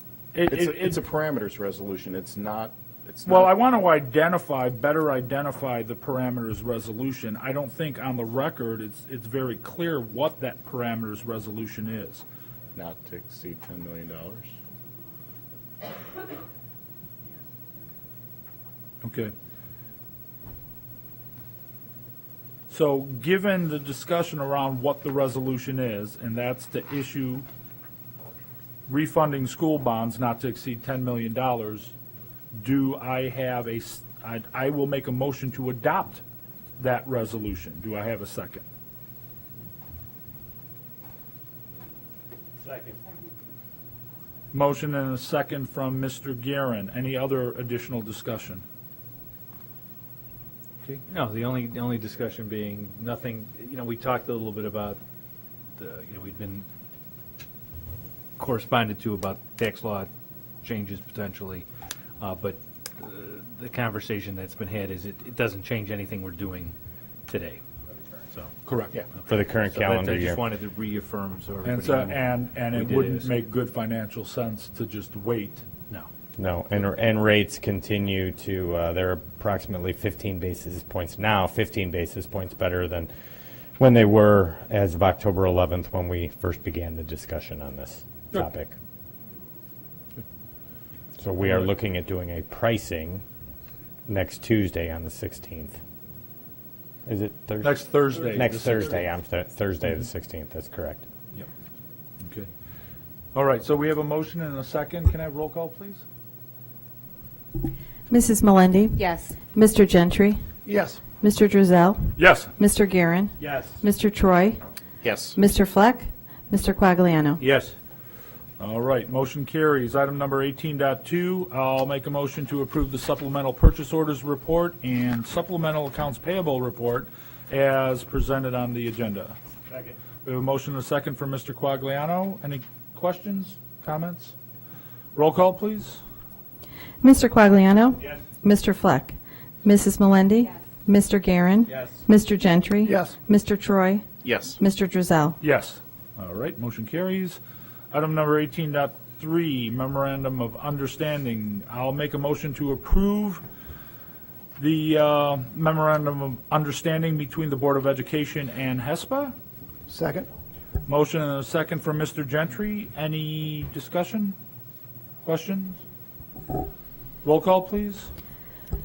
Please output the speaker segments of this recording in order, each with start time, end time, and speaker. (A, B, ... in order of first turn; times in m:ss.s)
0:00.3-0:01.0 A
0:00.5-0:03.5 B
0:03.3-0:12.2 A
0:12.8-0:14.5 B
0:19.0-0:19.3 A
0:22.7-0:27.5 A
0:28.9-0:31.9 A
0:32.6-0:36.2 A
0:36.8-0:38.6 A
0:44.5-0:48.6 A
0:51.1-0:55.0 C
0:55.8-0:56.7 C
0:58.4-1:00.1 C
1:00.6-1:01.7 C
1:02.2-1:06.7 C
1:07.3-1:07.6 C
1:08.6-1:09.0 A
1:09.3-1:10.4 D
1:09.6-1:13.3 C
1:11.6-1:15.7 A
1:16.4-1:23.1 D
1:23.8-1:28.8 D
1:31.2-1:33.2 D
1:34.1-1:35.8 D
1:37.1-1:41.0 D
1:37.6-1:39.0 A
1:42.2-1:42.5 A
1:43.4-1:46.0 A
1:48.1-1:50.4 E
1:50.7-1:51.0 B
1:51.2-1:54.6 E
1:52.2-1:52.5 A
1:53.4-1:53.7 C
1:55.0-1:55.4 B
1:55.4-1:57.4 E
1:57.4-1:57.8 C
1:58.6-2:14.3 A
2:15.2-2:16.0 A
2:17.0-2:24.0 E
2:24.2-2:24.6 B
2:24.6-2:25.4 E
2:25.4-2:27.4 A
2:27.9-2:33.4 A
2:34.6-2:39.4 A
2:39.9-2:40.2 B
2:40.9-2:44.4 A
2:45.2-2:45.8 A
2:47.2-2:48.1 A